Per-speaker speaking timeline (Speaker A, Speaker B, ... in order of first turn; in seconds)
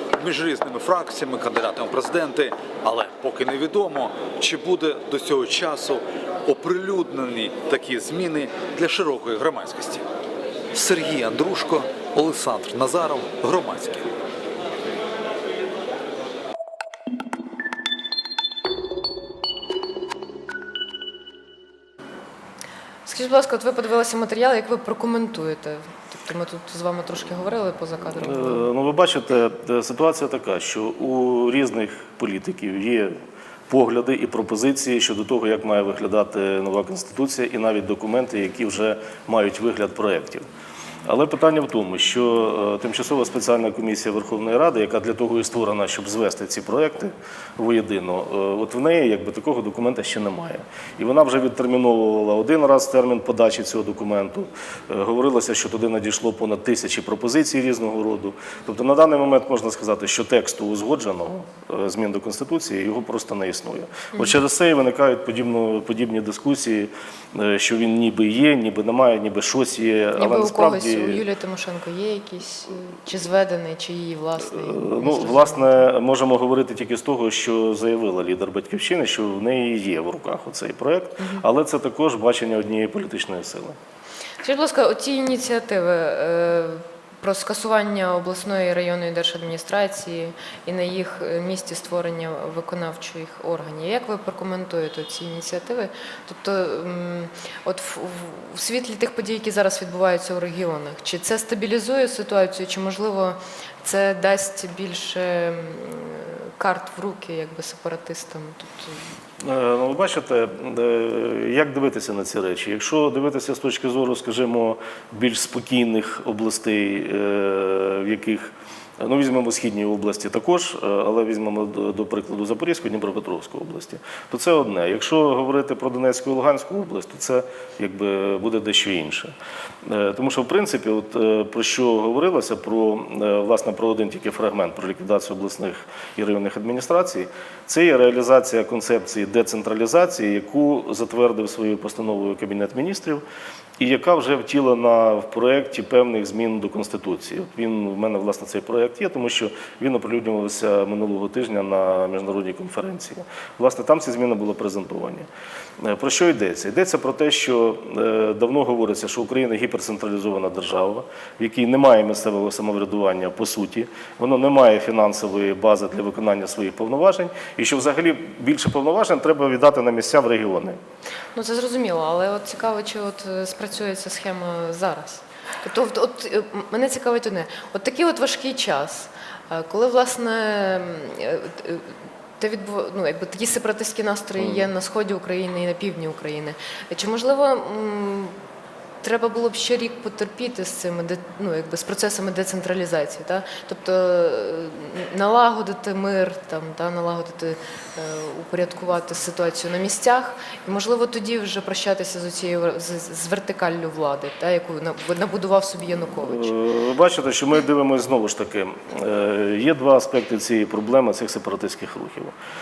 Speaker A: 0.1-10.0, 10.7-14.1
Speaker B: 23.1-28.7, 70.2-75.8, 81.2-81.4, 84.4-109.0, 171.3-188.4, 189.0-206.5
Speaker C: 28.2-40.4, 41.0-71.2, 74.5-83.8, 109.4-143.2, 143.8-155.3, 155.8-170.8, 184.4-184.7, 206.2-212.3